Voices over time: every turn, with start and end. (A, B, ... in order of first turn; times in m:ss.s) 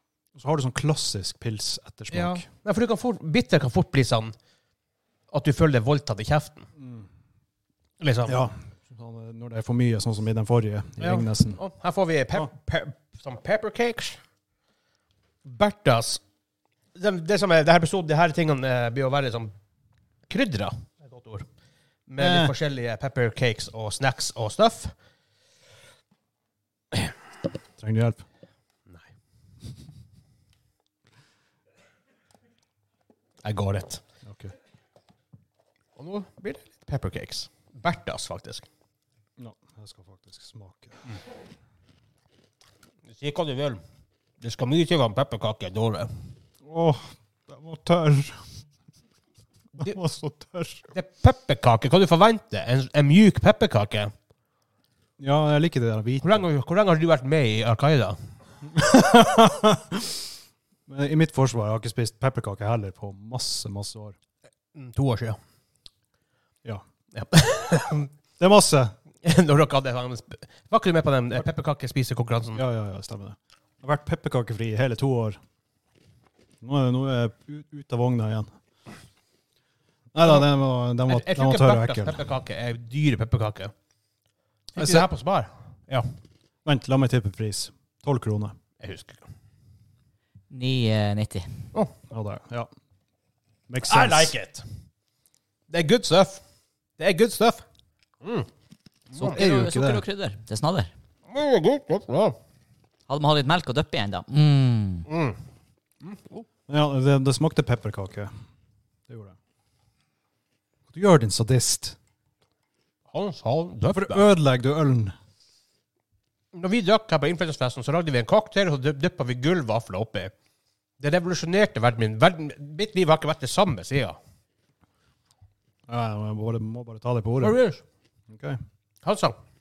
0:00.4-0:02.5 A
0:02.1-0:04.3 B
0:05.3-0:06.7 B
0:06.8-0:07.1 A
0:08.0-0:08.4 B
0:08.3-0:11.6 A
0:11.0-0:14.2 B
0:15.4-0:16.2 B
0:17.0-0:19.5 B
0:20.3-0:21.4 B
0:22.1-0:24.9 B
0:22.2-0:22.6 A
0:27.8-0:28.2 A
0:33.4-0:34.0 B
0:34.2-0:34.5 A
0:36.0-0:38.7 B
0:39.4-0:41.2 A
0:43.1-0:43.8 B
0:44.4-0:46.1 B
0:46.6-0:48.5 A
0:49.8-0:50.9 A
0:50.9-0:54.1 B
0:55.2-0:56.4 A
0:56.2-0:58.2 B
0:58.6-1:00.2 A
1:00.9-1:04.2 A
1:04.8-1:05.4 B
1:07.1-1:08.1 B
1:08.4-1:09.0 A
1:09.2-1:12.6 B
1:12.6-1:15.4 A
1:16.6-1:18.5 A
1:20.1-1:22.2 A
1:21.1-1:23.7 B
1:24.8-1:26.0 B
1:24.8-1:25.1 A
1:26.6-1:28.6 A
1:28.8-1:29.2 B
1:30.5-1:31.6 C
1:32.1-1:32.7 A
1:33.7-1:34.4 A
1:33.9-1:34.6 B
1:35.7-1:36.4 B
1:37.0-1:37.6 B
1:38.2-1:38.5 B
1:39.1-1:39.4 B
1:39.2-1:40.9 C
1:39.2-1:40.0 A
1:41.3-1:42.4 B
1:43.1-1:45.1 C
1:45.1-1:45.4 B
1:46.0-1:46.4 B
1:46.7-1:48.3 A
1:49.1-1:49.4 A
1:50.9-1:52.0 A
1:53.1-1:54.3 B
1:53.9-1:55.1 A
1:56.5-2:00.3 B
2:01.0-2:04.2 B
2:05.9-2:07.6 A
2:07.4-2:07.8 B
2:08.3-2:08.6 A
2:09.0-2:09.3 B